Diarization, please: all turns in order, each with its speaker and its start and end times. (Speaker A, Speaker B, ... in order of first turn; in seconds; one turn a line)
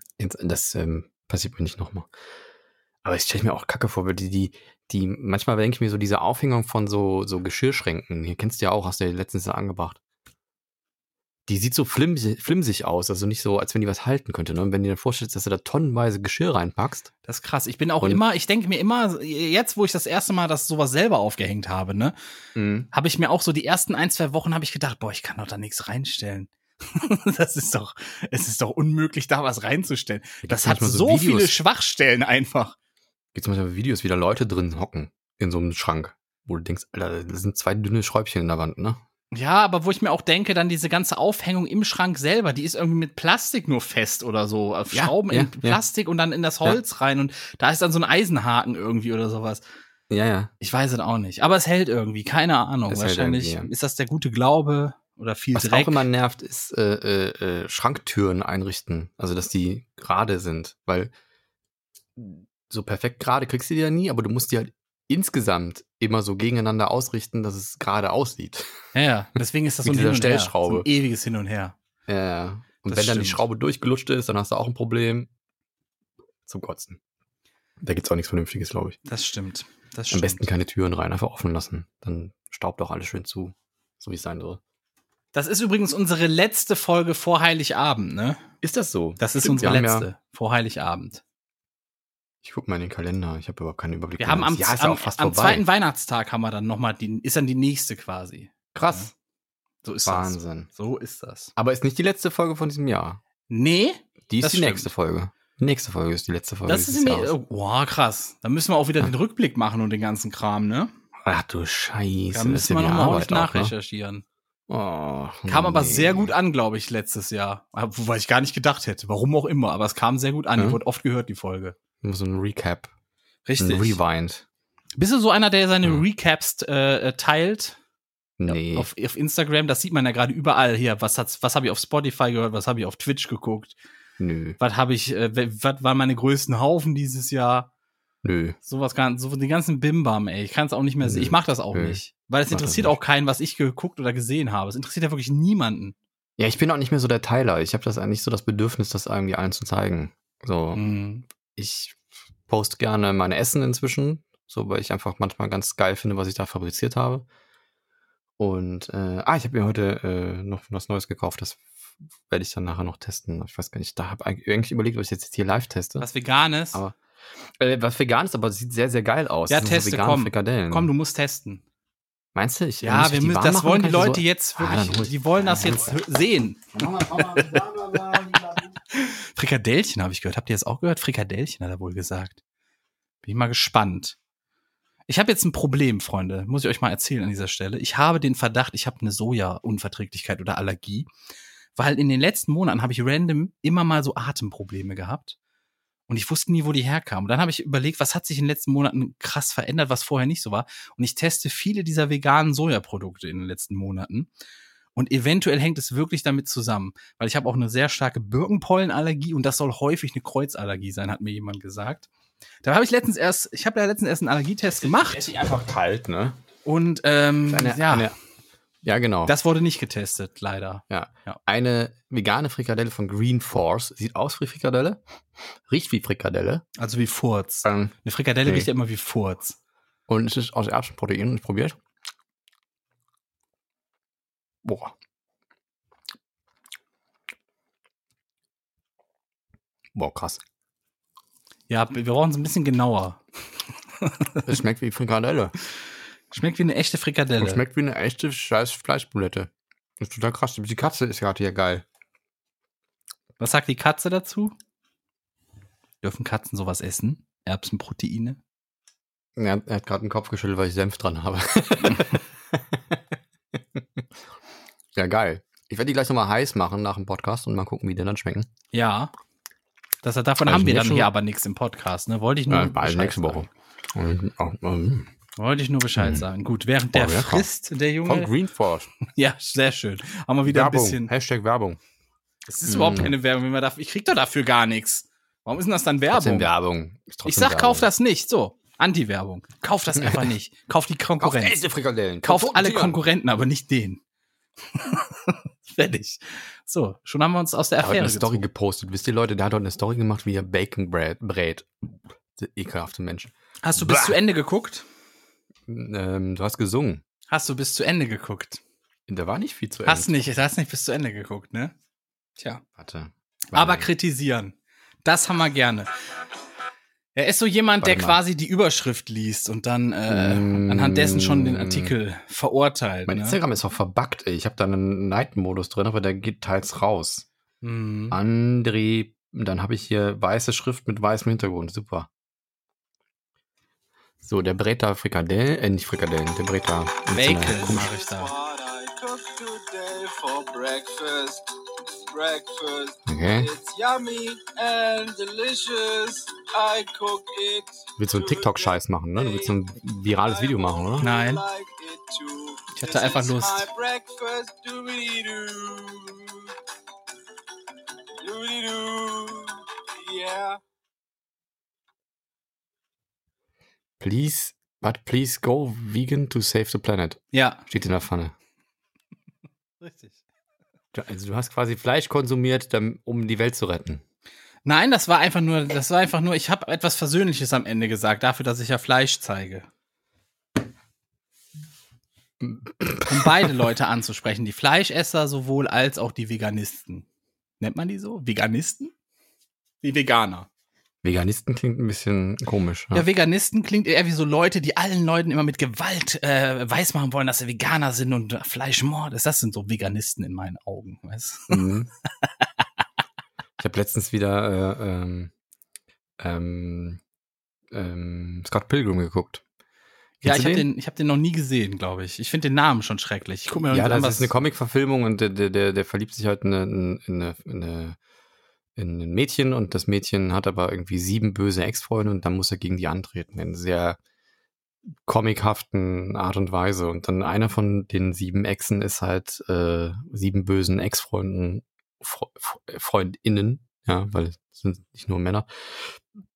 Speaker A: 0.2-2.1
Speaker A: 3.0-10.0
Speaker A: 11.5-17.1
Speaker B: 17.3-22.1
Speaker A: 22.6-22.9
Speaker B: 22.9-32.8
Speaker A: 30.4-31.6
Speaker A: 33.3-39.0
Speaker B: 39.3-49.6
Speaker A: 44.9-45.8
Speaker A: 50.1-50.5
Speaker B: 50.6-56.0
Speaker A: 52.9-53.7
Speaker A: 55.5-61.1
Speaker A: 62.2-68.7
Speaker B: 69.0-71.8
Speaker A: 69.8-70.9
Speaker A: 72.1-75.3
Speaker B: 72.8-73.4
Speaker A: 76.5-77.0
Speaker A: 77.8-79.0
Speaker B: 79.0-80.5
Speaker A: 80.1-84.6
Speaker B: 85.3-88.4
Speaker A: 88.6-90.1
Speaker B: 89.2-91.2
Speaker A: 92.4-95.6
Speaker B: 94.2-99.1
Speaker A: 98.7-99.1
Speaker B: 99.8-101.5
Speaker A: 100.0-100.7
Speaker A: 101.6-103.2
Speaker B: 103.5-104.9
Speaker A: 104.3-107.3
Speaker B: 106.7-110.9
Speaker A: 111.2-113.7
Speaker B: 112.3-114.2
Speaker A: 114.7-116.3
Speaker B: 115.5-121.8
Speaker A: 122.0-122.9
Speaker B: 123.5-124.0
Speaker A: 123.6-124.5
Speaker B: 125.0-127.8
Speaker A: 128.4-128.9
Speaker B: 128.5-133.8
Speaker A: 134.2-134.6
Speaker B: 134.6-137.7
Speaker A: 138.2-138.6
Speaker B: 138.7-146.0
Speaker A: 141.0-143.0
Speaker A: 146.4-150.8
Speaker B: 150.7-151.2
Speaker A: 151.6-157.3
Speaker A: 158.4-161.6
Speaker A: 162.3-166.1
Speaker B: 166.0-166.8
Speaker A: 167.6-170.9
Speaker B: 169.5-171.6
Speaker A: 172.3-176.0
Speaker B: 172.8-176.6
Speaker A: 176.7-178.8
Speaker B: 178.9-182.4
Speaker B: 183.2-184.2
Speaker B: 185.1-191.1
Speaker B: 191.8-195.4
Speaker B: 196.1-204.3
Speaker B: 205.0-212.1
Speaker B: 212.6-215.3
Speaker A: 214.8-216.4
Speaker B: 216.7-218.1
Speaker A: 217.5-218.2
Speaker A: 218.8-219.3
Speaker B: 219.3-221.4
Speaker A: 220.9-225.0
Speaker A: 225.7-226.6
Speaker B: 226.8-229.6
Speaker A: 227.6-227.9
Speaker A: 230.1-231.8
Speaker A: 234.6-234.9
Speaker A: 239.9-240.4
Speaker B: 241.7-243.2
Speaker B: 244.0-244.4
Speaker A: 244.5-245.5
Speaker B: 246.3-247.6
Speaker A: 247.4-251.8
Speaker B: 253.4-254.6
Speaker B: 256.0-258.4
Speaker A: 259.4-263.0
Speaker A: 263.8-264.0
Speaker A: 264.9-268.5
Speaker B: 268.7-269.1
Speaker B: 270.0-273.5
Speaker A: 270.4-271.1
Speaker A: 272.5-275.1
Speaker B: 275.4-278.3
Speaker A: 276.0-276.3
Speaker A: 276.9-277.5
Speaker A: 278.0-278.9
Speaker B: 279.1-281.1
Speaker A: 280.5-281.8
Speaker B: 282.5-286.5
Speaker A: 282.6-283.1
Speaker A: 286.1-287.9
Speaker B: 287.2-291.6
Speaker A: 289.9-290.3
Speaker A: 291.2-293.0
Speaker B: 292.2-294.0
Speaker B: 294.7-298.4
Speaker A: 297.8-301.8
Speaker A: 302.4-304.2
Speaker B: 303.6-304.8
Speaker A: 305.7-307.0
Speaker B: 307.3-308.6
Speaker A: 309.1-310.2
Speaker B: 309.9-311.7
Speaker A: 312.8-313.9
Speaker B: 313.5-315.9
Speaker B: 317.1-323.4
Speaker A: 317.8-318.2
Speaker A: 320.1-322.0
Speaker A: 323.1-327.3
Speaker B: 327.6-328.2
Speaker A: 328.1-332.1
Speaker A: 334.2-337.9
Speaker B: 337.1-338.3
Speaker C: 337.4-341.5
Speaker C: 342.1-349.6
Speaker A: 343.1-343.5
Speaker A: 348.0-351.1
Speaker C: 350.3-356.5
Speaker B: 351.0-351.4
Speaker B: 352.7-353.7
Speaker C: 358.2-360.6
Speaker A: 364.0-368.3
Speaker B: 367.3-367.6
Speaker B: 369.8-370.2
Speaker A: 370.9-374.0
Speaker B: 374.6-379.7
Speaker A: 382.4-383.5
Speaker B: 383.1-387.1
Speaker B: 387.6-388.9
Speaker B: 389.8-390.5
Speaker A: 391.0-393.1
Speaker B: 392.9-401.7
Speaker A: 401.5-401.9
Speaker A: 403.6-405.3
Speaker A: 406.2-407.0
Speaker A: 407.7-409.4
Speaker B: 410.2-414.3
Speaker A: 410.2-410.7
Speaker A: 413.7-418.0
Speaker A: 418.8-424.0
Speaker A: 425.1-436.0